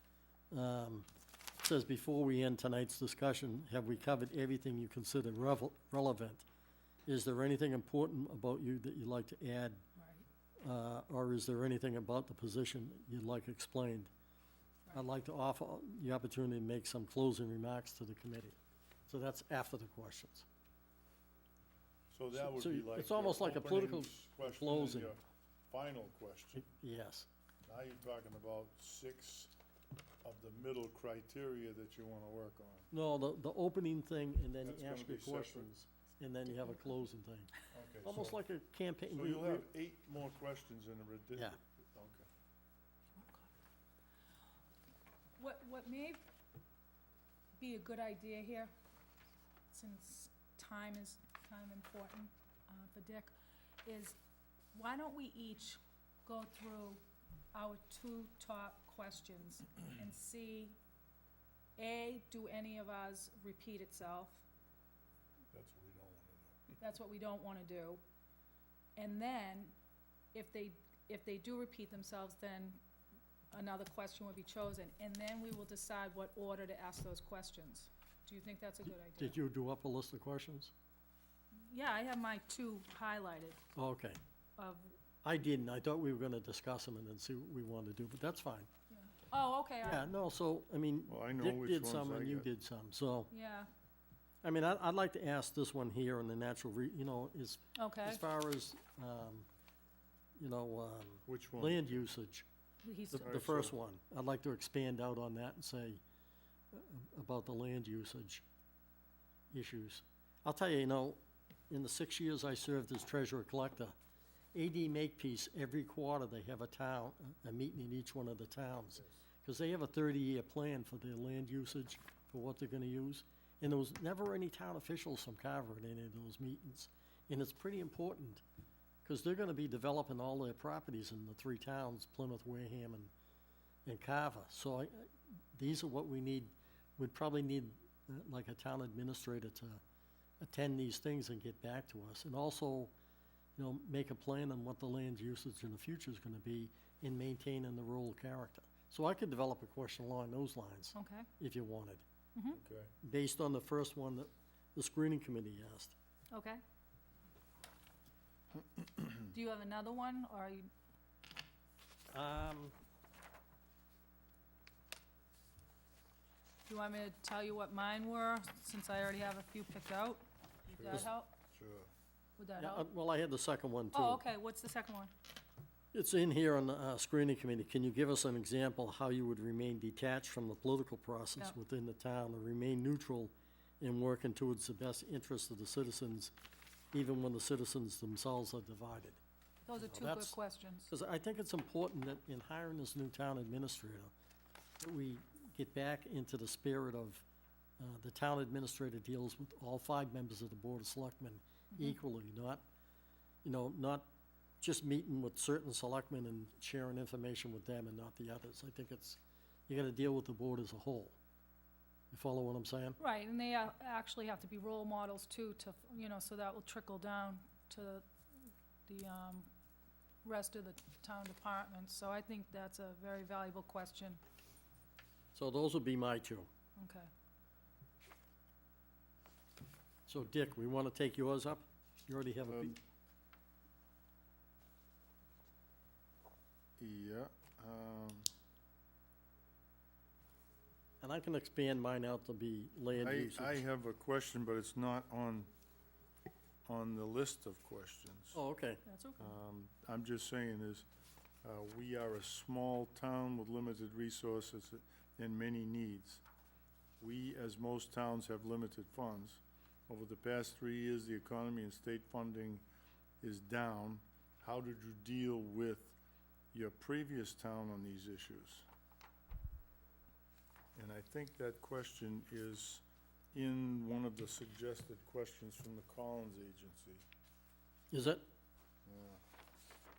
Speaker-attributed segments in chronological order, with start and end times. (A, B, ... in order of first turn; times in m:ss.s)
0:00.5-0:01.1 A
0:01.6-0:06.4 A
0:07.0-0:09.8 A
0:10.0-0:10.2 B
0:10.6-0:14.1 A
0:14.9-0:18.6 A
0:19.1-0:20.5 A
0:22.1-0:26.7 C
0:22.3-0:25.1 A
0:26.6-0:27.3 A
0:27.6-0:29.5 C
0:30.2-0:32.9 C
0:32.9-0:37.5 A
0:34.6-0:35.7 C
0:37.7-0:38.4 C
0:38.0-0:39.7 A
0:39.1-0:42.3 C
0:43.2-0:43.5 B
0:45.4-0:46.2 B
0:47.6-0:48.7 B
0:49.7-0:53.3 B
0:53.8-0:54.2 B
0:54.7-0:57.0 B
0:57.5-1:00.8 B
1:01.8-1:04.4 B
1:05.5-1:06.6 C
1:06.8-1:08.0 B
1:09.0-1:09.7 B
1:10.3-1:12.8 B
1:13.5-1:19.4 B
1:19.2-1:20.7 A
1:21.6-1:23.6 B
1:23.8-1:24.2 A
1:24.6-1:24.9 B
1:25.2-1:28.7 A
1:28.9-1:30.1 B
1:29.8-1:33.3 A
1:31.1-1:32.5 C
1:33.3-1:33.7 B
1:34.4-1:39.5 A
1:37.7-1:38.2 B
1:40.4-1:42.5 A
1:41.3-1:42.0 C
1:42.8-1:43.3 B
1:43.1-1:46.0 A
1:43.1-1:43.8 C
1:46.7-1:48.4 A
1:49.5-1:51.2 A
1:51.7-1:54.0 A
1:54.5-2:08.4 A
2:09.0-2:13.1 A
2:13.9-2:19.8 A
2:20.4-2:22.9 A
2:23.6-2:32.0 A
2:31.0-2:31.3 B
2:32.3-2:32.6 B
2:32.5-2:32.9 C
2:33.0-2:36.0 A
2:36.3-2:36.6 B
2:39.3-2:40.7 B
2:42.1-2:42.8 A
2:46.7-2:51.3 B
2:50.8-2:51.9 C
2:52.4-2:52.9 B
2:52.6-2:54.2 A
2:53.9-2:55.1 B
2:55.9-3:06.3 A
3:06.9-3:09.2 A
3:09.7-3:10.9 B
3:09.8-3:10.4 A
3:10.9-3:14.1 A
3:14.8-3:17.2 A
3:17.8-3:22.6 A
3:23.4-3:24.1 A
3:24.6-3:31.2 A
3:32.1-3:33.0 A
3:33.0-3:38.1 B
3:38.9-3:39.5 B
3:40.2-3:44.2 B
3:45.3-3:46.5 A
3:46.8-3:47.1 B
3:50.1-3:52.8 A
3:52.5-3:52.8 C
3:56.8-3:58.3 C
4:01.0-4:03.6 A
4:03.0-4:05.5 C
4:06.6-4:08.4 C
4:08.3-4:08.8 A
4:08.8-4:09.3 B
4:09.2-4:10.8 C
4:11.4-4:16.2 C
4:17.0-4:22.6 C
4:23.2-4:26.0 C
4:26.5-4:28.6 C
4:30.8-4:37.0 C
4:37.9-4:38.2 A
4:38.8-4:39.2 C